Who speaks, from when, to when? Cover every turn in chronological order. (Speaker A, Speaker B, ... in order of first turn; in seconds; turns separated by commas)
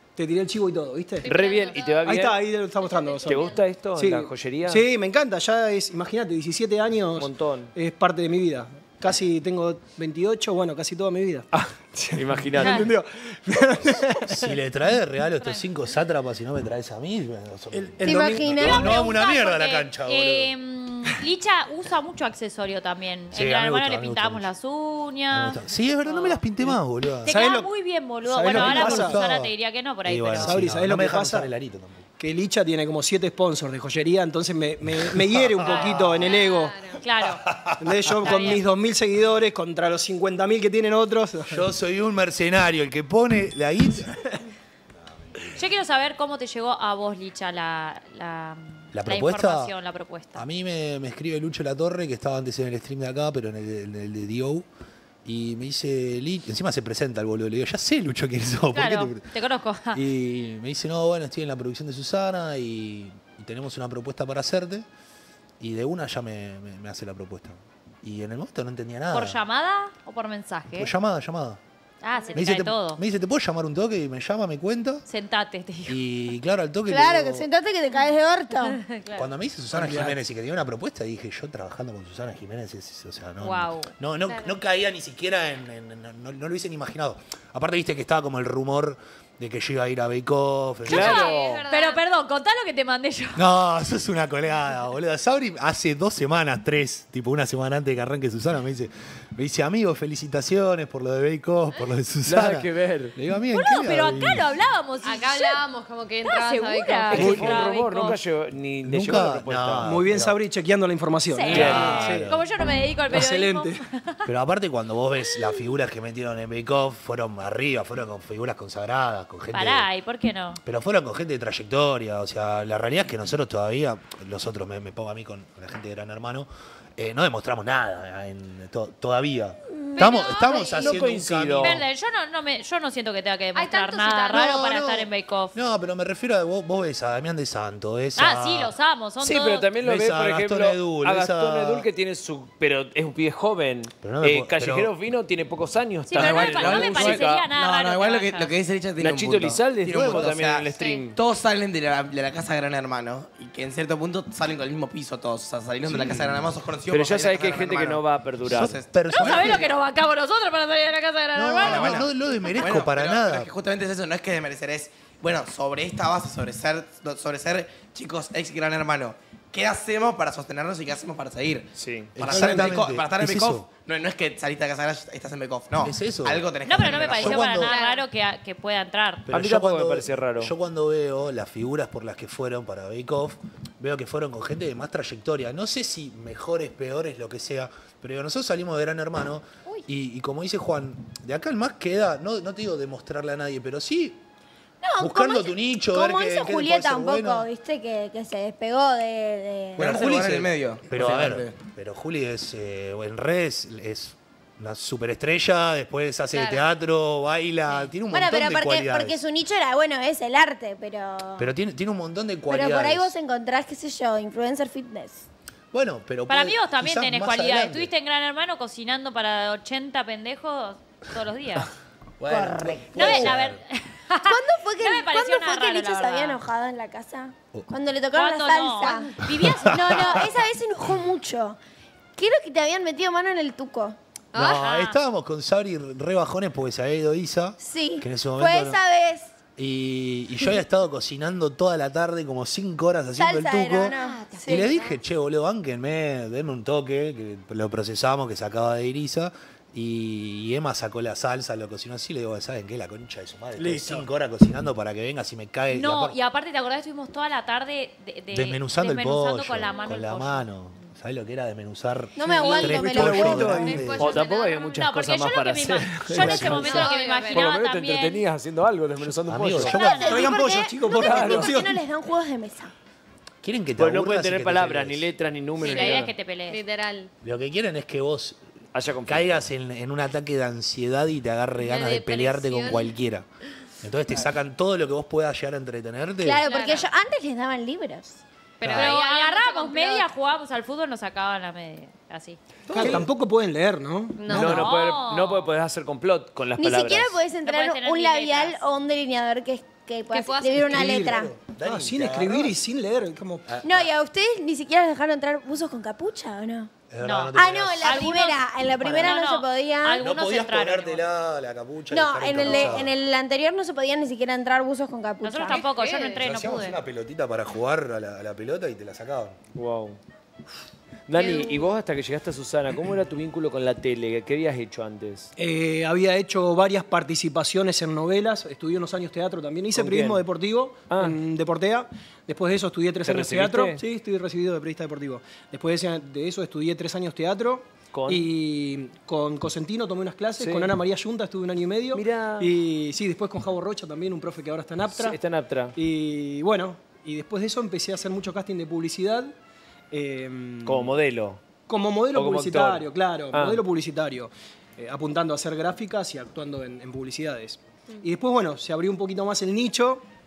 Speaker A: 0.2-1.4, Speaker B: 1.2-2.1, Speaker C: 1.3-2.4, Speaker D: 1.4-1.9, Speaker A: 2.0-14.4, Speaker B: 2.8-3.6, Speaker C: 3.2-4.8, Speaker C: 7.2-7.7, Speaker C: 11.5-12.9, Speaker D: 12.6-12.9, Speaker E: 14.3-20.6, Speaker D: 15.4-15.7, Speaker A: 17.7-18.7, Speaker F: 18.0-18.9, Speaker D: 18.6-26.4, Speaker E: 23.3-24.5, Speaker E: 25.3-27.4, Speaker D: 27.2-30.6, Speaker A: 27.3-27.7, Speaker A: 28.2-29.2, Speaker E: 28.5-32.0, Speaker A: 30.4-31.5, Speaker A: 32.2-36.7, Speaker E: 34.9-36.3, Speaker D: 35.6-37.5, Speaker B: 36.2-37.0, Speaker E: 37.2-38.2, Speaker A: 37.8-41.6, Speaker D: 38.2-38.6, Speaker E: 41.5-44.2, Speaker E: 45.2-45.6, Speaker D: 45.5-50.4, Speaker E: 48.9-49.8, Speaker E: 50.3-54.7, Speaker E: 55.2-59.3, Speaker D: 58.7-60.0, Speaker E: 59.9-64.9, Speaker E: 65.6-69.4, Speaker D: 69.1-70.9, Speaker E: 70.7-71.6, Speaker D: 72.0-73.0, Speaker B: 72.2-72.5, Speaker E: 72.3-75.0, Speaker D: 75.1-76.0, Speaker E: 75.9-77.5, Speaker F: 76.9-78.8, Speaker D: 78.5-79.3, Speaker E: 79.2-91.3, Speaker A: 79.7-80.2, Speaker D: 83.4-83.9, Speaker C: 90.9-91.7, Speaker D: 90.9-93.4, Speaker B: 91.0-92.0, Speaker E: 93.3-104.6, Speaker C: 102.2-103.1, Speaker D: 103.5-105.6, Speaker B: 105.0-107.7, Speaker D: 106.2-108.2, Speaker C: 107.1-109.8, Speaker E: 107.2-107.5, Speaker E: 108.8-110.4, Speaker A: 109.8-112.3, Speaker D: 111.3-114.2, Speaker C: 111.5-111.9, Speaker E: 111.5-112.5, Speaker A: 113.1-113.8, Speaker E: 114.2-119.9, Speaker D: 119.5-120.6, Speaker E: 120.6-131.9, Speaker B: 129.9-131.0, Speaker D: 130.0-130.7, Speaker C: 130.8-131.8, Speaker D: 131.6-135.6, Speaker B: 133.6-134.7, Speaker E: 134.3-138.8, Speaker D: 138.2-139.7, Speaker C: 139.2-147.5, Speaker E: 139.8-141.9, Speaker E: 144.0-144.9, Speaker D: 146.1-148.5, Speaker G: 146.1-159.6, Speaker C: 149.0-151.2, Speaker E: 149.9-150.3, Speaker E: 155.8-156.6, Speaker C: 156.9-158.7, Speaker E: 158.5-159.7, Speaker D: 159.1-162.5, Speaker E: 161.3-163.5, Speaker G: 161.6-177.5, Speaker C: 171.8-172.2, Speaker E: 172.2-173.7, Speaker E: 175.8-177.8, Speaker D: 176.7-179.3, Speaker B: 177.7-178.0, Speaker E: 179.3-194.2, Speaker C: 179.3-180.5, Speaker F: 194.8-199.9, Speaker E: 195.0-197.5, Speaker E: 199.8-209.2, Speaker G: 199.8-201.6, Speaker B: 206.3-206.6, Speaker D: 207.7-207.9, Speaker F: 208.1-211.5, Speaker E: 211.4-213.1, Speaker F: 212.5-215.3, Speaker E: 215.7-217.9, Speaker D: 216.3-221.7, Speaker E: 222.2-223.6, Speaker F: 222.3-223.3, Speaker D: 222.9-226.4, Speaker F: 224.2-229.2, Speaker D: 228.1-230.3, Speaker E: 229.2-230.3, Speaker F: 229.7-231.6, Speaker F: 232.2-234.0, Speaker B: 234.3-234.6, Speaker E: 234.3-238.8, Speaker D: 234.4-235.0, Speaker F: 237.6-239.3, Speaker E: 239.6-243.9, Speaker F: 243.2-244.7, Speaker D: 243.9-244.9, Speaker B: 244.3-244.8, Speaker E: 244.5-256.2, Speaker A: 253.6-254.1, Speaker D: 255.7-260.5, Speaker E: 258.3-264.2, Speaker F: 262.2-263.8, Speaker C: 262.4-269.8, Speaker B: 263.3-264.8, Speaker D: 264.6-268.2, Speaker E: 266.1-266.9, Speaker B: 266.5-267.5, Speaker E: 269.0-269.9, Speaker F: 269.6-272.7, Speaker D: 269.6-270.4, Speaker A: 270.0-271.8, Speaker E: 273.4-275.1, Speaker C: 273.8-276.1, Speaker D: 275.6-276.6, Speaker B: 275.6-277.1, Speaker E: 277.2-278.4, Speaker C: 278.7-279.4, Speaker E: 279.0-283.3, Speaker B: 281.6-282.9, Speaker E: 283.8-286.4, Speaker F: 286.2-288.2, Speaker D: 286.4-286.9, Speaker E: 288.6-289.0, Speaker B: 288.6-290.1, Speaker D: 288.7-292.4, Speaker A: 292.7-294.7, Speaker B: 294.2-294.6, Speaker C: 294.3-297.2, Speaker D: 294.3-295.5, Speaker F: 296.6-301.3, Speaker D: 297.4-298.6, Speaker B: 300.1-301.2, Speaker A: 300.7-303.5, Speaker E: 300.8-302.6, Speaker E: 303.5-303.9, Speaker F: 303.6-306.7, Speaker E: 306.9-308.2, Speaker D: 307.0-311.0, Speaker F: 307.4-310.0, Speaker E: 308.8-309.1, Speaker E: 310.0-313.0, Speaker F: 311.9-315.6, Speaker B: 312.4-312.7, Speaker D: 315.2-316.8, Speaker B: 315.5-316.2, Speaker E: 316.2-319.4, Speaker C: 319.6-320.0, Speaker C: 321.1-325.3, Speaker B: 321.1-321.7, Speaker A: 325.4-345.2, Speaker C: 329.8-330.2, Speaker C: 330.9-331.2, Speaker C: 333.1-333.8, Speaker C: 337.9-338.3, Speaker C: 340.4-340.8, Speaker C: 341.9-342.5, Speaker C: 344.9-345.8, Speaker A: 345.8-349.3, Speaker A: 349.9-350.9, Speaker C: 350.6-351.4, Speaker A: 351.7-360.1, Speaker C: 352.1-353.6